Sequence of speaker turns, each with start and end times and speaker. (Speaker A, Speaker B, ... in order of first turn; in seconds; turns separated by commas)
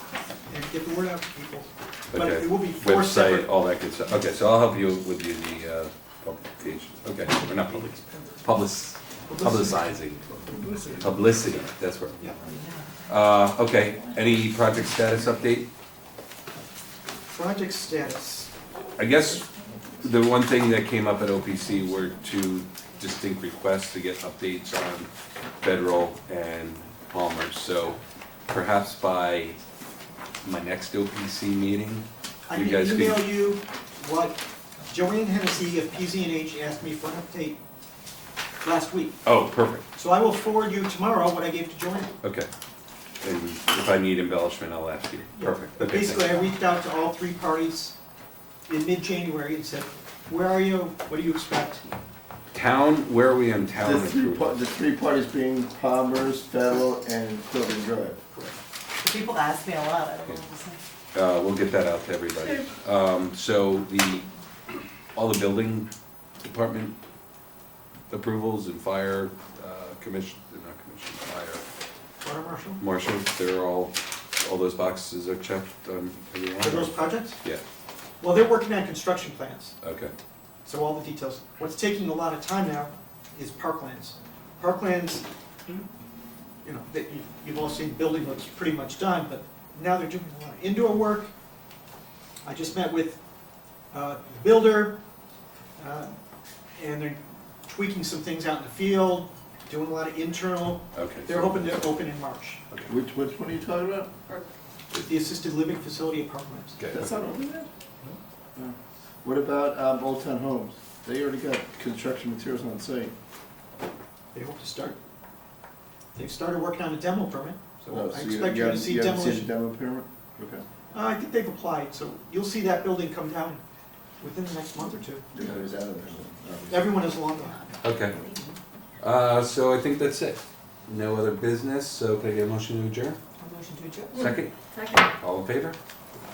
Speaker A: 0.5-3.5, Speaker B: 2.1-10.4, Speaker A: 7.7-8.3, Speaker A: 9.3-9.7, Speaker C: 10.5-11.0, Speaker A: 10.7-11.0, Speaker B: 11.0-12.3, Speaker D: 12.4-12.9, Speaker B: 13.1-15.7, Speaker A: 17.3-18.5, Speaker B: 19.0-19.5, Speaker B: 20.0-25.1, Speaker B: 25.6-29.6, Speaker B: 30.4-33.2, Speaker A: 32.5-37.6, Speaker A: 38.6-39.2, Speaker B: 39.2-39.9, Speaker A: 40.0-42.1, Speaker B: 42.2-42.5, Speaker B: 43.2-46.4, Speaker A: 45.4-48.0, Speaker A: 48.7-52.0, Speaker B: 52.5-54.6, Speaker C: 53.8-58.2, Speaker D: 59.0-60.8, Speaker B: 61.1-64.3, Speaker B: 65.2-65.9, Speaker B: 66.4-67.0, Speaker B: 68.1-71.6, Speaker A: 72.2-72.8, Speaker B: 72.8-77.6, Speaker A: 76.6-77.4, Speaker A: 78.2-79.8, Speaker B: 79.8-80.1, Speaker A: 80.7-85.3, Speaker A: 86.6-91.3, Speaker A: 92.5-93.2, Speaker A: 93.9-95.0, Speaker A: 95.8-96.1, Speaker A: 96.8-102.6, Speaker B: 100.9-101.9, Speaker C: 102.9-104.1, Speaker A: 104.9-106.8, Speaker B: 106.8-107.1, Speaker C: 106.9-107.7, Speaker C: 108.6-113.1, Speaker A: 114.3-115.0, Speaker A: 116.2-119.5, Speaker C: 117.9-120.6, Speaker A: 120.9-123.6, Speaker A: 124.2-125.2, Speaker C: 125.3-127.0, Speaker A: 126.7-127.7, Speaker D: 127.4-128.6, Speaker B: 127.8-128.2, Speaker B: 129.0-133.2, Speaker D: 133.4-134.3, Speaker B: 134.1-134.5, Speaker B: 135.2-135.8